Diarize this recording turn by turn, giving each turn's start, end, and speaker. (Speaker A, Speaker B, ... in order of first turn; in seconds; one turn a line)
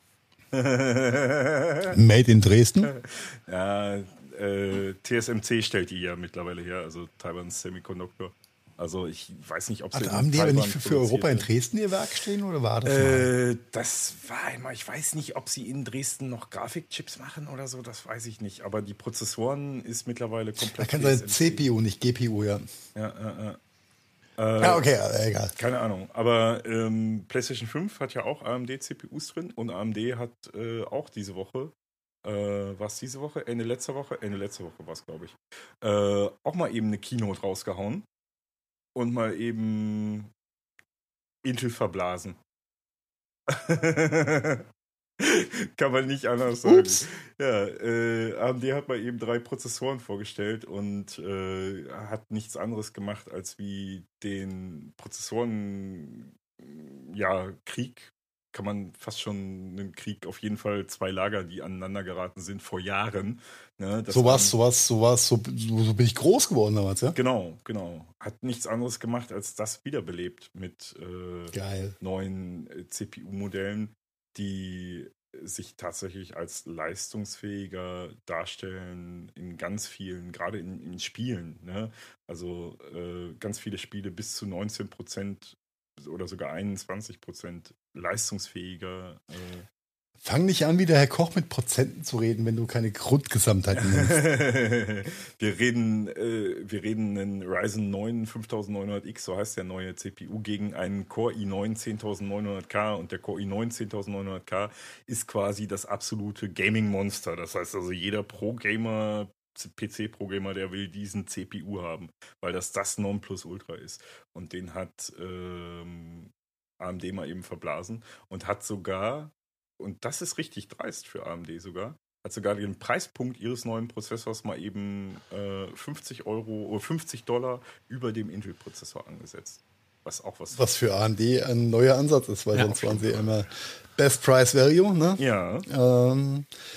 Speaker A: 0.5-2.0
Speaker B: 1.9-2.9
Speaker A: 2.8-11.5
Speaker B: 9.9-13.3
Speaker A: 12.8-21.6
Speaker B: 20.7-22.6
Speaker A: 22.9-23.6
Speaker A: 24.4-24.9
Speaker B: 24.6-25.5
Speaker A: 25.5-38.0
Speaker A: 38.9-40.3
Speaker A: 41.4-42.4
Speaker A: 43.5-64.5
Speaker B: 46.7-47.0
Speaker B: 64.1-67.2
Speaker A: 67.1-89.7
Speaker B: 71.5-72.0
Speaker B: 90.2-94.2
Speaker A: 93.7-130.6
Speaker B: 130.5-136.5
Speaker A: 132.5-133.3
Speaker A: 135.2-135.7